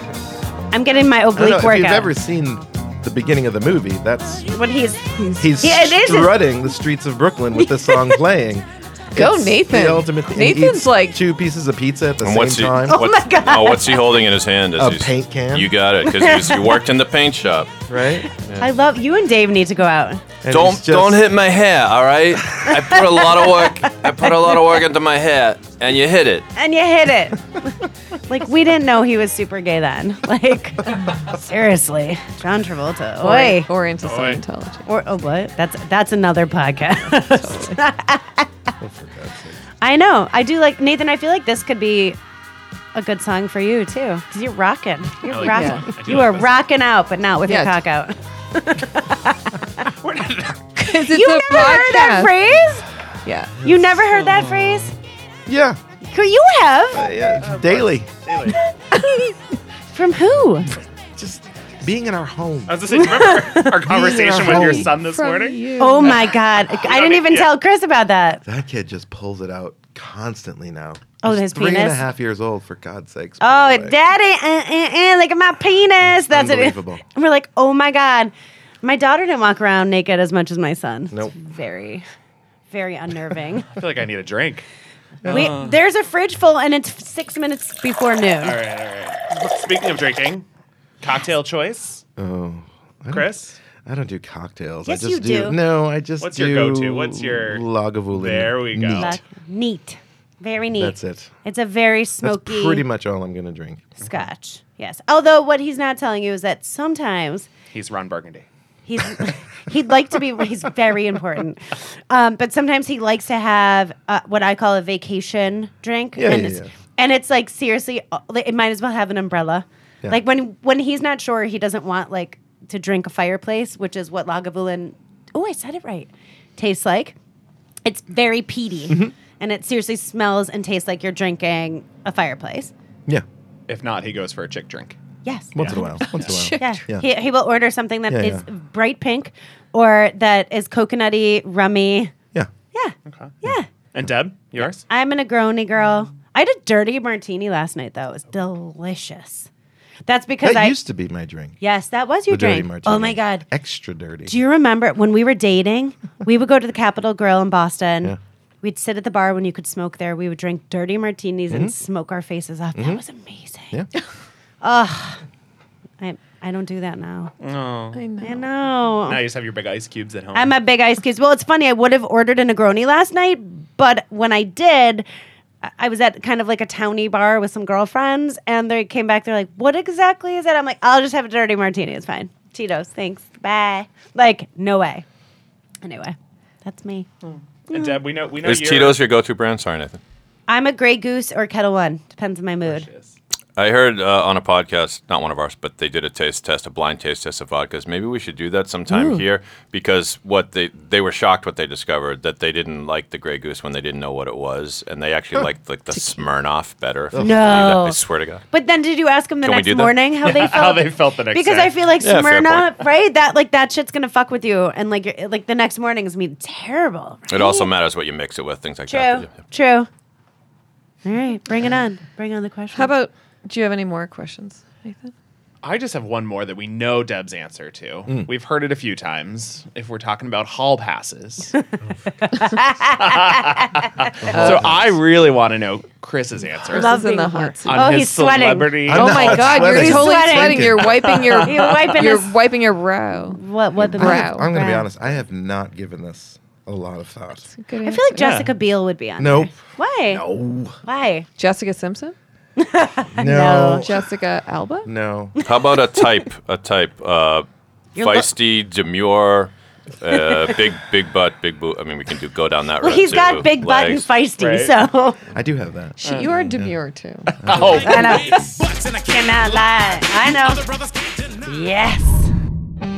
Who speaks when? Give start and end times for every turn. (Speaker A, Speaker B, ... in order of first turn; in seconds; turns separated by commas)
Speaker A: 0.7-2.1, Speaker B: 1.3-4.6, Speaker A: 4.5-6.4, Speaker B: 5.4-13.2, Speaker A: 7.6-8.2, Speaker C: 9.1-11.2, Speaker D: 12.2-17.8, Speaker A: 12.9-14.2, Speaker B: 14.8-15.7, Speaker A: 16.0-16.8, Speaker B: 17.9-18.3, Speaker A: 18.5-20.2, Speaker B: 20.4-21.3, Speaker D: 20.5-26.5, Speaker A: 23.0-23.7, Speaker A: 26.5-27.8, Speaker A: 28.3-33.7, Speaker C: 33.2-34.8, Speaker E: 34.0-34.4, Speaker A: 34.9-38.5, Speaker C: 37.1-37.8, Speaker B: 38.8-39.6, Speaker A: 39.8-42.2, Speaker A: 42.9-49.9, Speaker E: 45.2-46.5, Speaker C: 45.4-46.0, Speaker C: 47.5-47.8, Speaker E: 50.0-50.8, Speaker C: 50.8-52.4, Speaker A: 51.1-52.9, Speaker C: 53.2-53.6, Speaker A: 53.6-54.9, Speaker E: 54.1-54.9, Speaker B: 55.5-55.8, Speaker A: 56.0-57.1, Speaker B: 56.9-58.2, Speaker E: 57.4-58.6, Speaker A: 59.9-60.7, Speaker B: 61.1-63.0, Speaker E: 62.7-67.5, Speaker A: 63.0-64.0, Speaker B: 63.9-64.9, Speaker C: 64.5-66.3, Speaker A: 65.8-68.4, Speaker B: 68.5-74.0, Speaker A: 71.2-72.0, Speaker A: 73.4-82.0, Speaker B: 76.0-77.0, Speaker A: 82.7-83.7, Speaker E: 83.7-84.6, Speaker B: 85.2-85.5, Speaker E: 85.2-85.8, Speaker A: 85.3-88.6, Speaker E: 88.4-90.4, Speaker E: 91.0-92.0, Speaker B: 92.2-99.2, Speaker E: 93.1-93.6, Speaker A: 94.8-95.6, Speaker E: 96.2-99.2, Speaker A: 98.9-102.8, Speaker B: 100.8-101.3, Speaker B: 102.2-104.0, Speaker A: 104.0-107.5, Speaker E: 107.7-108.5, Speaker A: 108.9-127.2, Speaker B: 116.1-116.7, Speaker A: 127.8-132.7, Speaker E: 133.7-134.9, Speaker A: 135.2-135.9, Speaker B: 135.5-137.1, Speaker C: 135.9-136.8, Speaker A: 136.6-142.1, Speaker B: 138.1-138.4, Speaker A: 142.7-143.7, Speaker E: 143.1-143.3, Speaker E: 143.9-144.8, Speaker A: 144.9-149.5, Speaker A: 150.1-150.8, Speaker B: 150.4-151.6, Speaker A: 151.6-153.4, Speaker B: 152.3-154.3, Speaker A: 154.2-163.7, Speaker B: 161.5-161.7, Speaker B: 162.7-163.0, Speaker A: 164.6-165.2, Speaker A: 166.0-167.3, Speaker E: 167.4-168.0, Speaker C: 167.9-168.4, Speaker A: 168.2-169.2, Speaker E: 169.0-170.5, Speaker A: 170.3-175.1, Speaker A: 175.6-185.0, Speaker A: 185.8-187.1, Speaker E: 187.2-189.0, Speaker A: 187.7-188.0, Speaker D: 188.4-190.0, Speaker A: 190.5-192.9, Speaker E: 192.6-193.2, Speaker D: 193.6-208.4, Speaker C: 198.9-199.2, Speaker C: 205.9-206.2, Speaker B: 207.1-207.6, Speaker A: 207.2-208.0, Speaker A: 208.5-217.7, Speaker D: 209.4-209.9, Speaker E: 210.2-211.8, Speaker D: 212.0-212.7, Speaker D: 217.3-219.4, Speaker A: 218.9-219.9, Speaker A: 221.0-222.9, Speaker C: 222.7-225.1, Speaker E: 225.6-231.5, Speaker A: 232.2-233.8, Speaker E: 233.0-237.1, Speaker B: 234.3-234.8, Speaker C: 234.3-234.7, Speaker A: 236.7-240.8, Speaker C: 236.7-238.0, Speaker E: 237.6-240.1, Speaker B: 238.9-241.0, Speaker C: 238.9-243.4, Speaker E: 240.8-242.0, Speaker A: 241.3-242.4, Speaker A: 243.3-244.9, Speaker B: 243.8-247.5, Speaker C: 244.0-244.5, Speaker C: 247.5-248.3, Speaker A: 247.8-250.2, Speaker E: 248.2-248.5, Speaker B: 249.2-250.8, Speaker A: 250.8-251.3, Speaker C: 251.4-252.1, Speaker A: 252.6-253.9, Speaker B: 253.2-254.0, Speaker C: 253.7-254.9, Speaker B: 254.8-255.3, Speaker D: 255.4-264.1, Speaker A: 257.9-258.3, Speaker A: 262.8-265.2, Speaker E: 264.4-264.7, Speaker B: 265.3-266.8, Speaker C: 266.0-267.3, Speaker E: 266.0-266.3, Speaker E: 267.3-269.0, Speaker B: 267.4-267.9, Speaker A: 267.7-270.7, Speaker A: 271.3-272.3